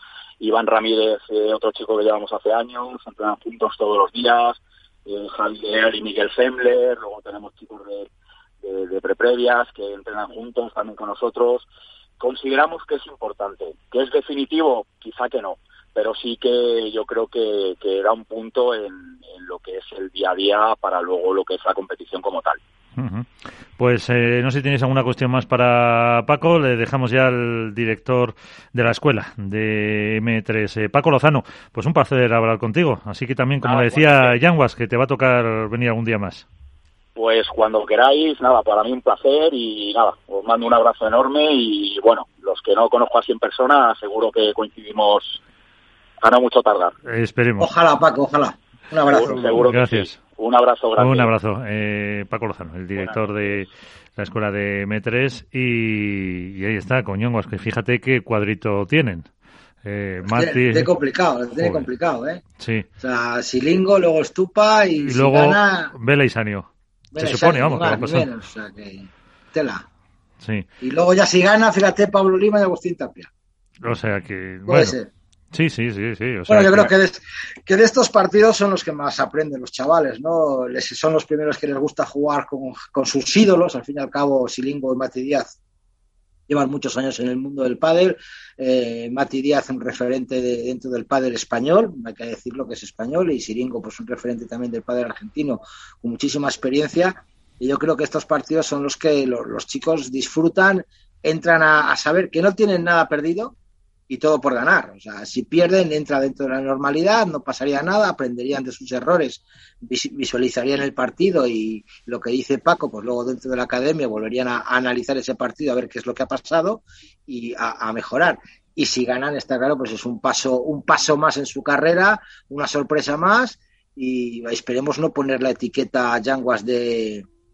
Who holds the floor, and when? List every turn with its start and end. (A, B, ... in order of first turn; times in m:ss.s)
0:00.4-0:08.1 A
0:08.6-0:11.7 A
0:12.2-0:22.6 A
0:23.0-0:36.4 B
0:33.6-0:34.3 A
0:37.2-0:45.4 A
0:46.2-0:46.9 A
0:47.0-0:47.7 B
0:47.6-0:49.6 C
0:49.1-0:51.3 A
0:49.7-0:50.2 B
0:51.0-0:59.3 B
0:53.0-0:53.5 A
0:59.8-1:00.9 B
1:00.2-1:02.4 C
1:01.6-1:01.9 B
1:02.6-1:02.9 B
1:03.0-1:05.9 C
1:05.0-1:08.3 B
1:07.1-1:09.8 C
1:10.4-1:10.7 B
1:10.8-1:13.3 C
1:13.8-1:15.0 B
1:14.7-1:15.1 C
1:15.5-1:16.9 B
1:16.5-1:25.6 C
1:26.5-1:43.5 C
1:44.1-2:07.2 C